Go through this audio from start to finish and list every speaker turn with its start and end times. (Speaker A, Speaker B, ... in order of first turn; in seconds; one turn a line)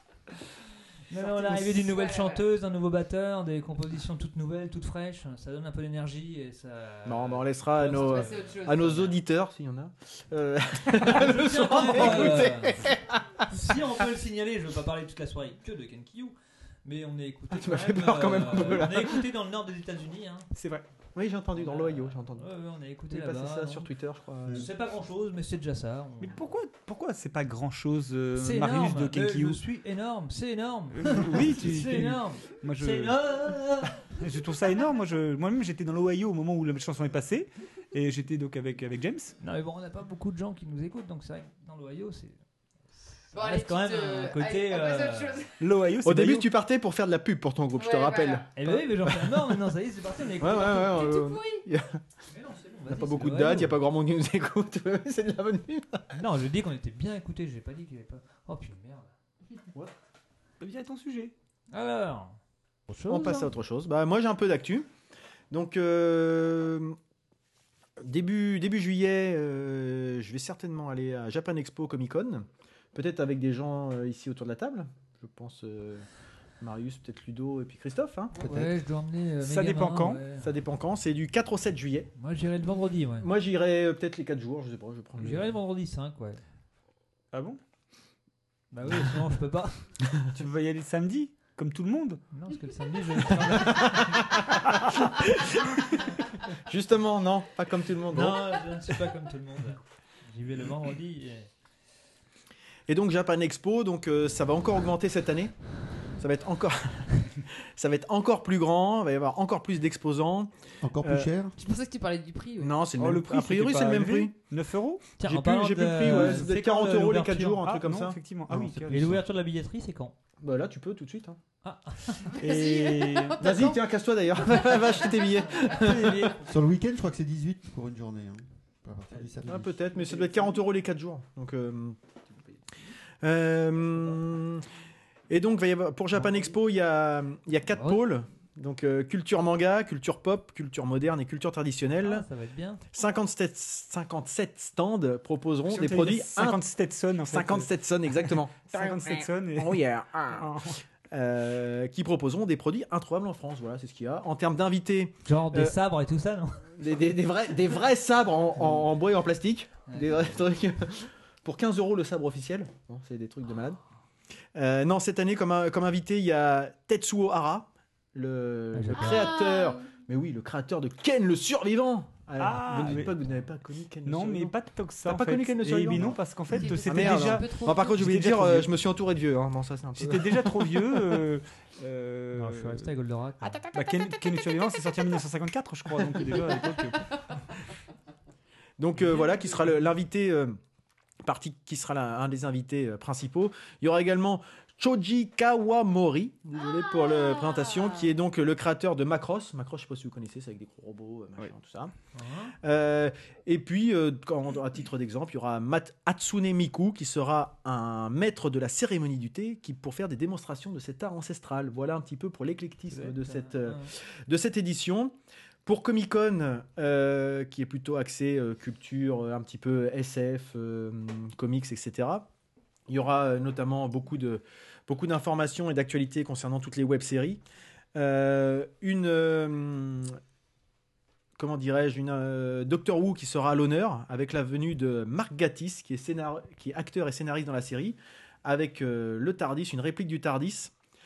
Speaker A: 1.1-9.2
Speaker B: 1.5-1.8
Speaker C: 1.8-2.4
Speaker B: 7.1-13.4
Speaker C: 7.9-9.0
Speaker A: 11.0-12.9
Speaker A: 13.4-20.5
Speaker B: 17.5-19.2
Speaker D: 20.5-20.9
Speaker B: 21.1-22.5
Speaker A: 21.6-23.9
Speaker B: 23.1-24.7
Speaker A: 24.5-26.4
Speaker D: 26.2-29.6
Speaker A: 28.4-34.1
Speaker D: 30.9-33.2
Speaker D: 34.1-39.4
Speaker A: 39.4-42.4
Speaker A: 43.0-45.4
Speaker C: 43.3-45.6
Speaker D: 45.6-46.5
Speaker B: 46.0-49.5
Speaker C: 47.8-48.5
Speaker A: 48.5-51.2
Speaker B: 50.4-52.0
Speaker C: 50.9-51.7
Speaker A: 52.3-53.8
Speaker B: 52.9-56.1
Speaker A: 56.1-59.1
Speaker D: 60.6-61.3
Speaker A: 61.7-62.4
Speaker A: 62.9-63.5
Speaker B: 63.1-64.9
Speaker B: 65.5-67.0
Speaker B: 68.0-76.0
Speaker B: 76.6-78.3
Speaker A: 78.3-80.5
Speaker E: 78.4-78.8
Speaker D: 79.4-80.2
Speaker B: 80.4-82.1
Speaker A: 82.2-83.3
Speaker B: 83.2-85.5
Speaker A: 85.2-86.4
Speaker D: 87.3-87.6
Speaker A: 88.7-90.0
Speaker D: 90.3-92.2
Speaker A: 92.3-94.3
Speaker D: 94.6-96.0
Speaker B: 96.7-98.5
Speaker A: 98.1-101.5
Speaker B: 102.9-111.3
Speaker E: 110.8-111.5
Speaker C: 111.6-112.8
Speaker B: 112.6-114.3
Speaker D: 113.0-115.0
Speaker A: 115.2-117.6
Speaker B: 115.2-118.2
Speaker D: 116.0-116.5
Speaker D: 117.6-119.2
Speaker E: 118.5-119.2
Speaker A: 118.9-120.1
Speaker B: 120.4-121.4
Speaker A: 121.6-122.4
Speaker C: 122.3-123.8
Speaker D: 122.3-123.5
Speaker B: 123.4-126.3
Speaker A: 125.3-126.7
Speaker E: 126.4-129.9
Speaker B: 129.4-132.0
Speaker B: 133.2-134.7
Speaker B: 135.3-142.2
Speaker A: 137.7-138.0
Speaker A: 142.0-142.9
Speaker B: 142.9-146.6
Speaker D: 145.7-150.8
Speaker B: 147.2-150.6
Speaker B: 151.1-155.7
Speaker A: 155.2-156.7
Speaker B: 156.8-163.8
Speaker A: 159.9-160.4
Speaker B: 164.6-174.5
Speaker A: 168.7-169.4
Speaker C: 168.9-169.8
Speaker D: 172.4-173.2
Speaker A: 172.9-173.4
Speaker D: 174.0-178.7
Speaker B: 175.1-176.2
Speaker C: 176.5-178.0
Speaker B: 176.8-181.1
Speaker D: 180.0-182.9
Speaker A: 182.3-183.6
Speaker D: 183.4-187.3
Speaker B: 188.8-190.6
Speaker B: 191.2-201.9
Speaker C: 196.6-198.2
Speaker A: 202.1-202.6
Speaker B: 202.6-215.1
Speaker A: 212.9-213.9
Speaker B: 215.7-222.3
Speaker B: 222.9-227.4
Speaker B: 228.0-230.2
Speaker B: 231.4-240.7